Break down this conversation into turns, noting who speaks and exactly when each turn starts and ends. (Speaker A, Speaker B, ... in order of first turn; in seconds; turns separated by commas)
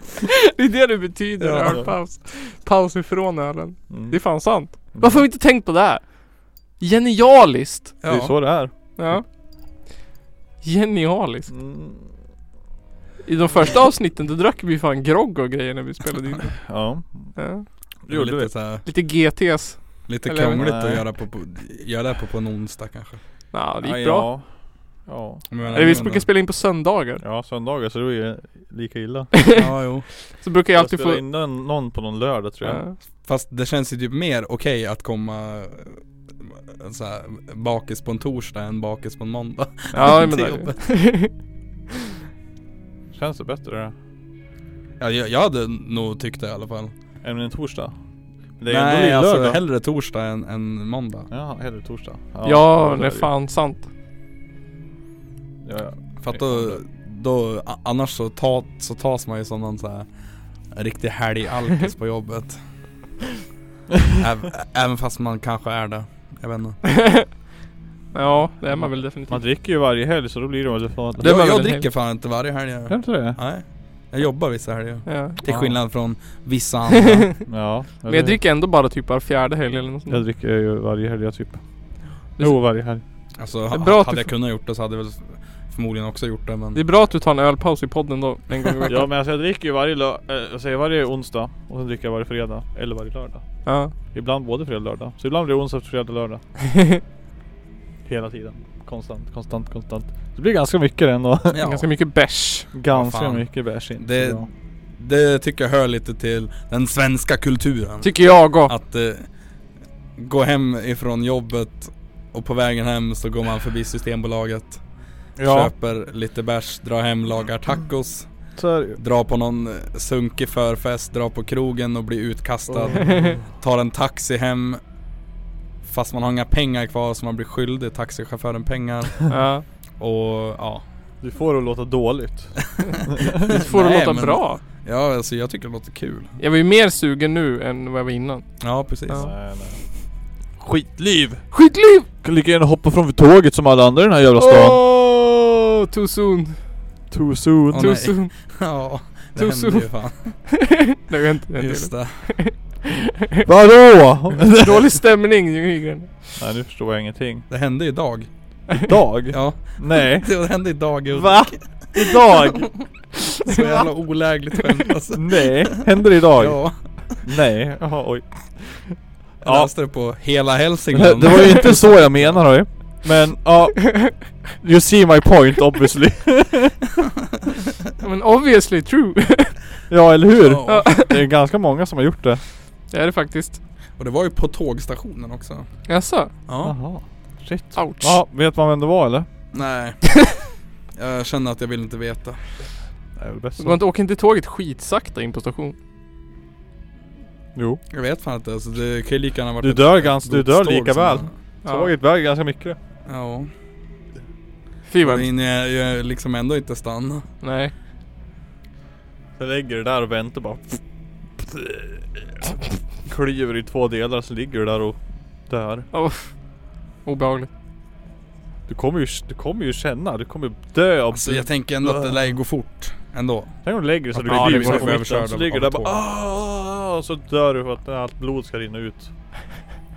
Speaker A: 0.5-7.9, Speaker B: 1.4-1.9, Speaker C: 1.6-1.9, Speaker C: 3.9-5.3, Speaker B: 8.0-8.5, Speaker C: 8.1-9.2, Speaker A: 9.0-9.2, Speaker A: 10.6-11.5, Speaker C: 11.5-12.2, Speaker A: 13.2-16.6, Speaker C: 16.5-17.4, Speaker A: 17.4-17.6, Speaker C: 18.1-18.5, Speaker B: 18.1-18.9, Speaker A: 18.8-20.6, Speaker B: 20.1-23.2, Speaker C: 20.6-21.0, Speaker A: 23.5-24.3, Speaker C: 23.8-26.1, Speaker B: 25.5-26.3, Speaker A: 25.7-27.2, Speaker C: 27.2-29.5, Speaker B: 29.6-30.2, Speaker A: 30.3-31.2, Speaker C: 30.7-32.8, Speaker A: 32.6-33.0, Speaker B: 33.2-40.8, Speaker A: 39.9-41.3, Speaker C: 43.1-43.9, Speaker B: 45.0-46.9, Speaker C: 47.2-48.0, Speaker C: 48.5-49.6, Speaker B: 48.7-51.3, Speaker C: 51.3-53.3, Speaker A: 52.4-53.9, Speaker C: 55.6-56.8, Speaker B: 56.2-60.1, Speaker B: 60.7-62.7, Speaker B: 64.2-66.8, Speaker A: 67.0-67.3, Speaker A: 68.1-69.4, Speaker C: 68.7-71.3, Speaker A: 71.2-71.9, Speaker B: 71.2-77.3, Speaker C: 72.9-73.4, Speaker A: 75.0-75.4, Speaker C: 75.5-75.8, Speaker C: 77.5-78.4, Speaker A: 78.0-80.2, Speaker C: 80.1-81.6, Speaker C: 82.4-83.0, Speaker B: 83.4-86.8, Speaker A: 83.7-84.3, Speaker A: 86.7-89.0, Speaker C: 88.9-96.4, Speaker A: 93.7-93.9, Speaker C: 98.0-101.6, Speaker B: 101.5-101.9, Speaker A: 101.6-102.7, Speaker C: 102.7-104.5, Speaker B: 102.9-109.3, Speaker A: 108.0-108.7, Speaker B: 110.2-114.8, Speaker C: 115.4-115.7, Speaker B: 115.4-124.8, Speaker C: 118.5-119.0, Speaker C: 122.7-123.5, Speaker B: 125.8-129.4, Speaker A: 129.3-129.6, Speaker B: 130.0-130.8, Speaker C: 131.2-133.4, Speaker B: 133.4-136.3, Speaker A: 133.4-134.6, Speaker A: 136.4-139.3, Speaker B: 138.6-139.3, Speaker C: 139.1-139.8, Speaker C: 140.6-144.8, Speaker A: 141.5-142.1, Speaker A: 144.4-146.7, Speaker C: 147.1-147.9, Speaker B: 147.7-150.4, Speaker A: 147.8-148.3, Speaker A: 149.3-152.8, Speaker B: 151.6-152.6, Speaker C: 153.4-154.9, Speaker A: 154.5-156.4, Speaker C: 156.4-157.4, Speaker B: 157.5-158.3, Speaker C: 158.7-160.3, Speaker B: 159.3-162.7, Speaker C: 161.1-162.7, Speaker B: 163.4-165.8, Speaker A: 163.4-163.8, Speaker C: 165.1-169.7, Speaker B: 166.3-167.2, Speaker B: 169.4-172.4, Speaker C: 170.9-176.8, Speaker A: 178.0-179.6, Speaker C: 179.9-182.4, Speaker B: 180.4-180.9, Speaker A: 180.7-181.1, Speaker A: 182.9-183.6, Speaker B: 184.0-185.7, Speaker A: 185.9-186.3, Speaker B: 186.4-186.8, Speaker C: 186.6-189.3, Speaker A: 187.7-188.2, Speaker B: 189.5-192.6, Speaker C: 193.2-193.8, Speaker A: 193.6-195.8, Speaker C: 197.5-197.8, Speaker B: 197.9-201.3, Speaker C: 199.6-202.8, Speaker A: 201.6-201.9, Speaker B: 203.1-203.5, Speaker A: 204.9-205.3, Speaker B: 205.0-207.3, Speaker A: 207.4-207.7, Speaker C: 209.4-210.8, Speaker C: 211.3-215.9, Speaker A: 215.9-216.3, Speaker A: 217.0-217.5, Speaker C: 218.7-222.2, Speaker B: 221.1-226.0, Speaker C: 223.6-229.1, Speaker A: 224.3-225.0